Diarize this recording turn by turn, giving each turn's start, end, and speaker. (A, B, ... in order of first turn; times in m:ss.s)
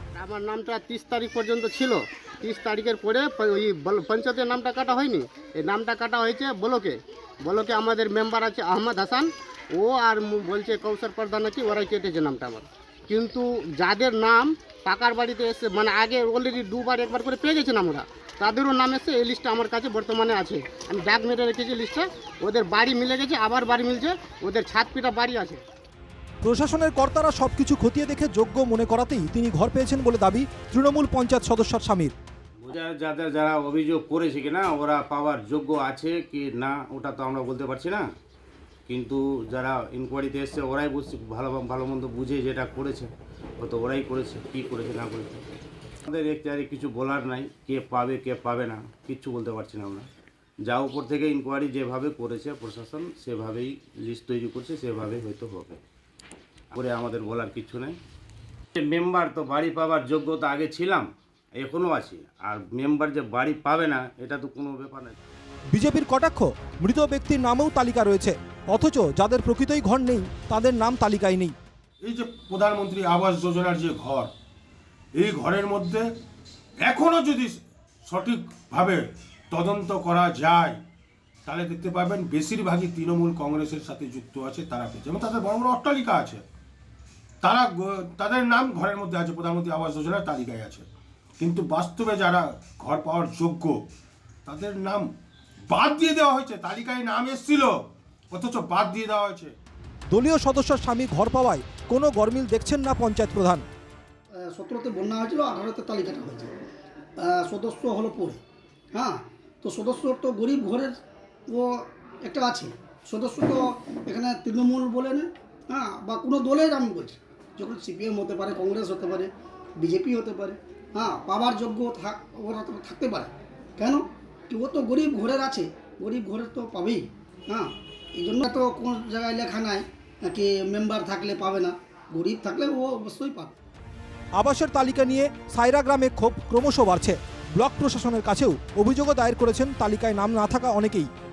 0:00.2-0:25.6 A
0:26.4-0:32.1 B
0:32.6-0:38.1 C
0:38.9-0:45.5 C
0:46.1-0:50.1 C
0:50.7-0:55.8 C
0:56.7-0:58.0 C
0:58.8-1:01.1 C
1:01.6-1:05.2 C
1:05.7-1:11.6 B
1:12.0-1:14.3 D
1:15.2-1:16.1 D
1:16.8-1:20.8 D
1:21.5-1:26.4 D
1:27.4-1:30.9 D
1:31.4-1:33.8 D
1:34.5-1:35.1 D
1:35.7-1:37.7 D
1:38.3-1:39.5 D
1:40.1-1:43.6 B
1:44.5-1:46.5 E
1:47.2-1:48.4 E
1:48.9-1:50.9 E
1:51.5-2:13.5 E
2:14.4-2:21.1 B